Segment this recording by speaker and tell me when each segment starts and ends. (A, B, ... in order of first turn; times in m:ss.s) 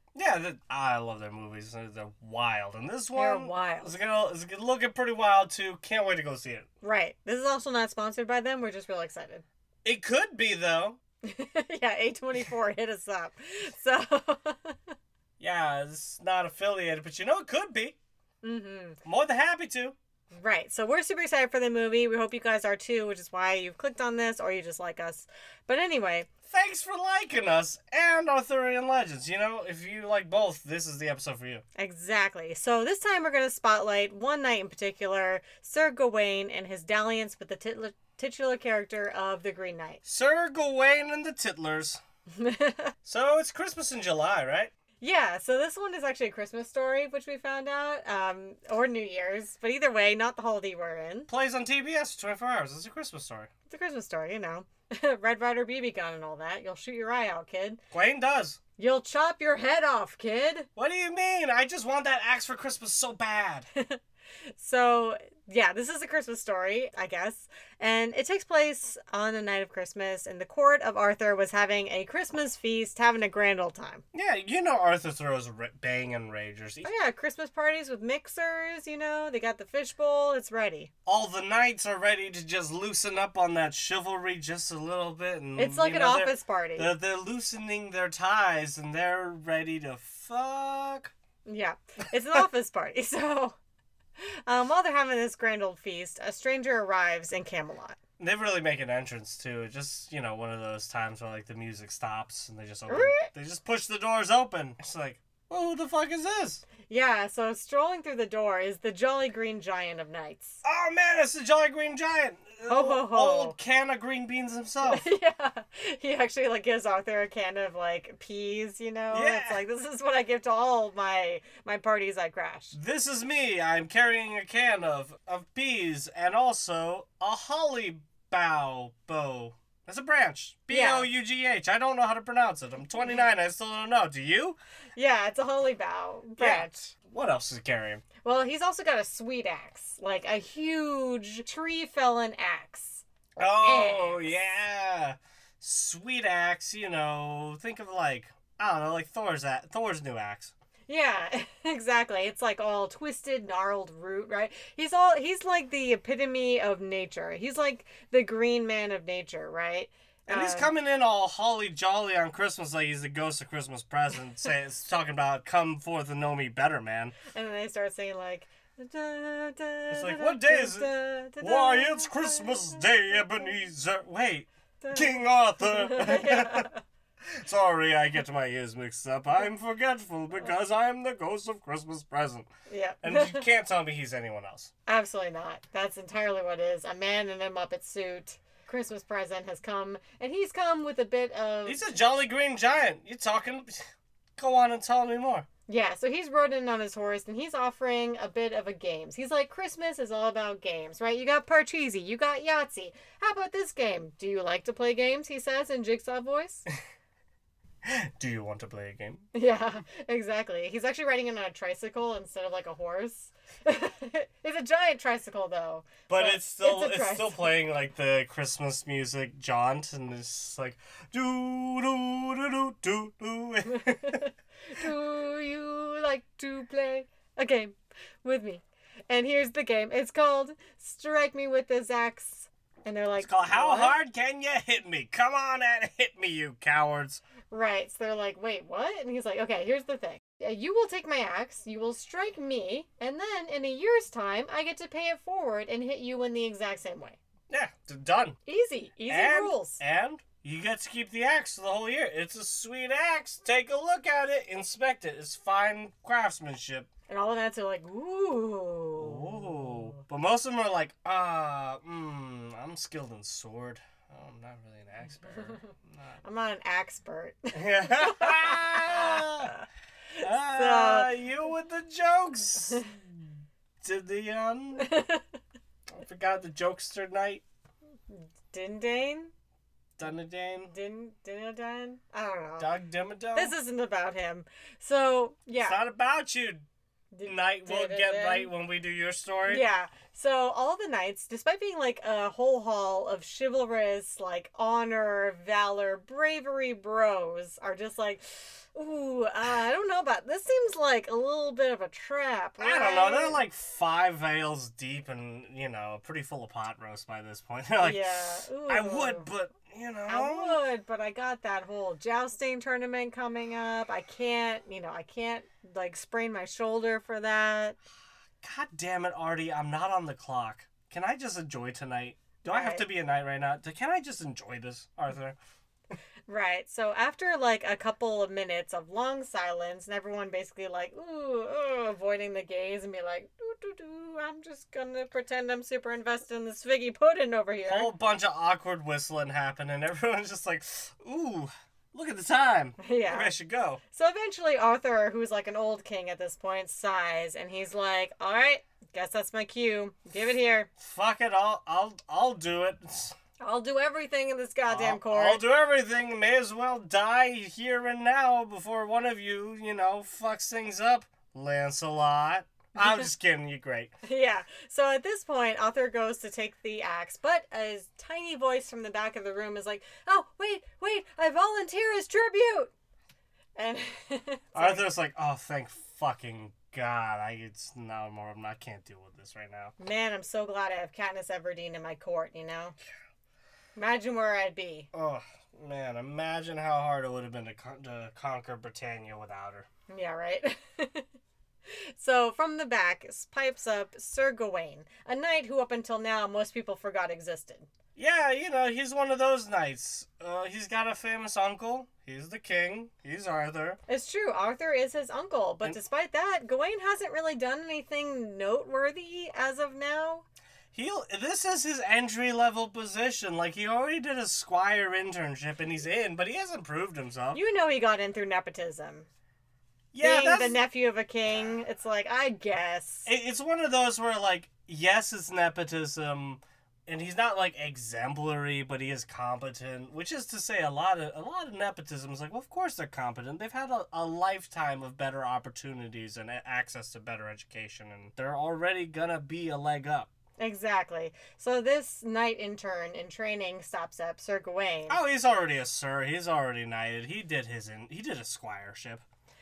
0:00.1-0:06.7 A
0:03.2-0:04.0 B
0:06.8-0:09.4 B
0:09.8-0:11.0 A
0:11.2-0:14.8 B
0:15.4-0:18.0 A
0:18.4-0:19.0 B
0:19.0-0:20.0 A
0:20.3-0:26.3 B
0:26.5-0:31.6 A
0:31.8-0:40.0 B
0:40.0-0:42.0 A
0:42.3-0:42.9 B
0:43.0-0:44.7 A
0:45.0-0:51.3 B
0:51.3-0:53.5 A
0:53.7-0:57.8 B
0:57.9-0:58.6 A
0:58.8-1:00.7 B
1:00.8-1:03.7 A
1:04.6-1:14.0 B
1:14.1-1:16.9 A
1:16.8-1:20.9 B
1:21.1-1:31.1 A
1:25.6-1:26.9 B
1:31.4-1:33.6 B
1:34.2-1:38.0 B
1:38.2-1:46.7 A
1:42.9-1:43.3 B
1:46.8-1:50.6 B
1:50.6-1:55.1 A
1:52.7-1:53.6 B
1:54.9-2:02.8 B
1:59.1-1:59.6 A
2:02.7-2:14.6 A
2:10.7-2:11.1 B
2:15.0-2:16.8 B
2:16.4-2:18.0 A
2:18.2-2:23.0 B
2:23.4-2:30.5 A
2:23.6-2:24.5 B
2:30.9-2:40.7 B
2:40.3-2:47.2 A
2:47.3-2:53.4 B
2:49.9-2:56.7 A
2:54.8-2:56.8 B
2:57.3-3:02.5 A
3:02.7-3:03.5 B
3:03.0-3:04.7 A
3:04.9-3:12.0 B
3:11.7-3:15.5 A
3:15.7-3:26.7 B
3:27.8-3:29.3 A
3:29.3-3:37.6 B
3:36.1-3:44.2 A
3:43.7-3:54.0 B
3:53.2-3:57.2 A
3:57.5-4:07.2 B
4:07.5-4:08.4 A
4:08.5-4:09.8 B
4:09.1-4:16.9 A
4:17.1-4:20.0 B
4:19.0-4:26.2 A
4:25.3-4:25.7 B
4:26.2-4:31.1 B
4:27.5-4:29.5 A
4:30.2-4:34.9 A
4:34.8-4:35.2 B
4:35.9-4:37.4 A
4:38.1-4:39.3 B
4:40.0-4:40.7 A
4:40.7-4:42.7 B
4:42.6-4:43.5 A
4:43.4-4:45.8 B
4:45.6-4:46.6 A
4:47.1-4:48.5 B
4:47.2-4:49.6 A
4:49.5-5:03.4 B
5:02.6-5:10.6 A
5:07.8-5:09.3 B
5:10.1-5:17.8 B
5:18.4-5:25.4 A
5:22.4-5:22.8 B
5:26.3-5:37.9 B
5:37.7-5:43.8 A
5:42.8-5:43.3 B
5:43.9-5:50.7 B
5:50.8-5:53.2 A
5:53.4-5:55.4 B
5:54.7-6:03.9 A
6:02.8-6:03.0 B
6:04.0-6:12.7 B
6:13.6-6:14.9 B
6:14.6-6:19.7 A
6:19.8-6:22.8 B
6:23.8-6:24.9 B
6:24.9-6:29.7 A
6:29.9-6:31.1 B
6:31.7-6:37.7 B
6:38.0-6:43.8 A
6:43.9-6:50.3 B
6:50.7-6:57.4 A
6:57.3-6:59.1 B
6:59.9-7:00.6 A
7:00.0-7:03.1 B
7:03.1-7:20.1 A
7:20.4-7:25.0 B
7:24.9-7:29.0 A